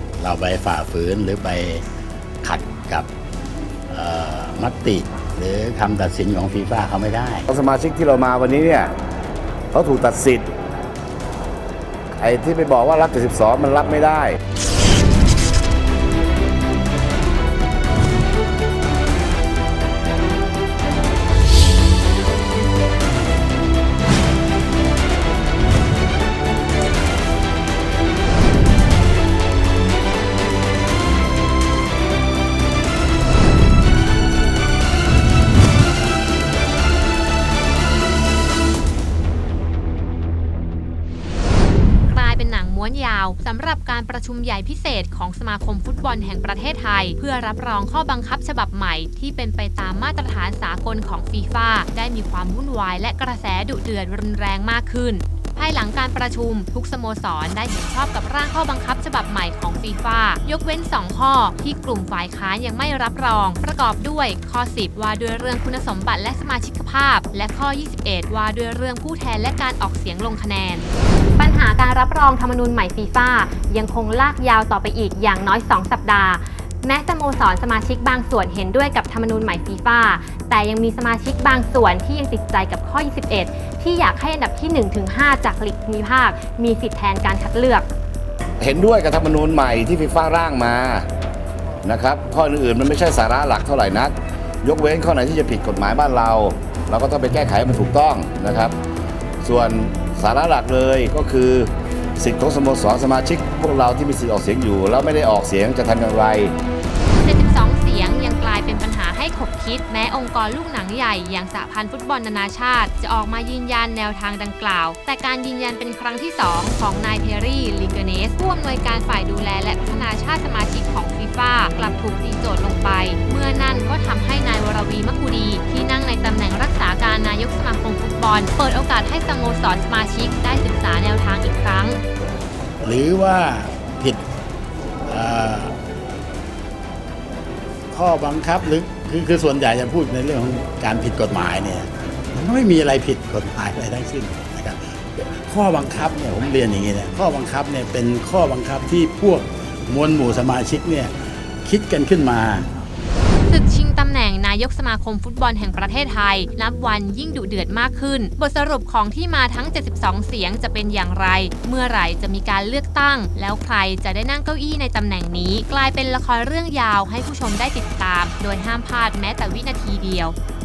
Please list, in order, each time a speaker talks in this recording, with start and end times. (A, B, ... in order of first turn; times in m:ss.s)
0:00.2-0:01.9 A
0:02.4-0:03.1 A
0:03.9-0:07.5 A
0:07.5-0:08.9 B
0:09.7-0:10.5 B
0:12.2-0:14.4 B
0:42.1-1:10.9 C
1:11.4-1:27.9 C
1:28.6-1:31.1 B
1:31.8-1:38.8 B
1:39.4-1:46.5 B
1:47.2-2:12.0 C
2:12.8-2:14.2 A
2:15.1-2:15.7 A
2:17.9-2:31.1 A
2:31.6-2:32.7 A
2:33.5-2:50.4 C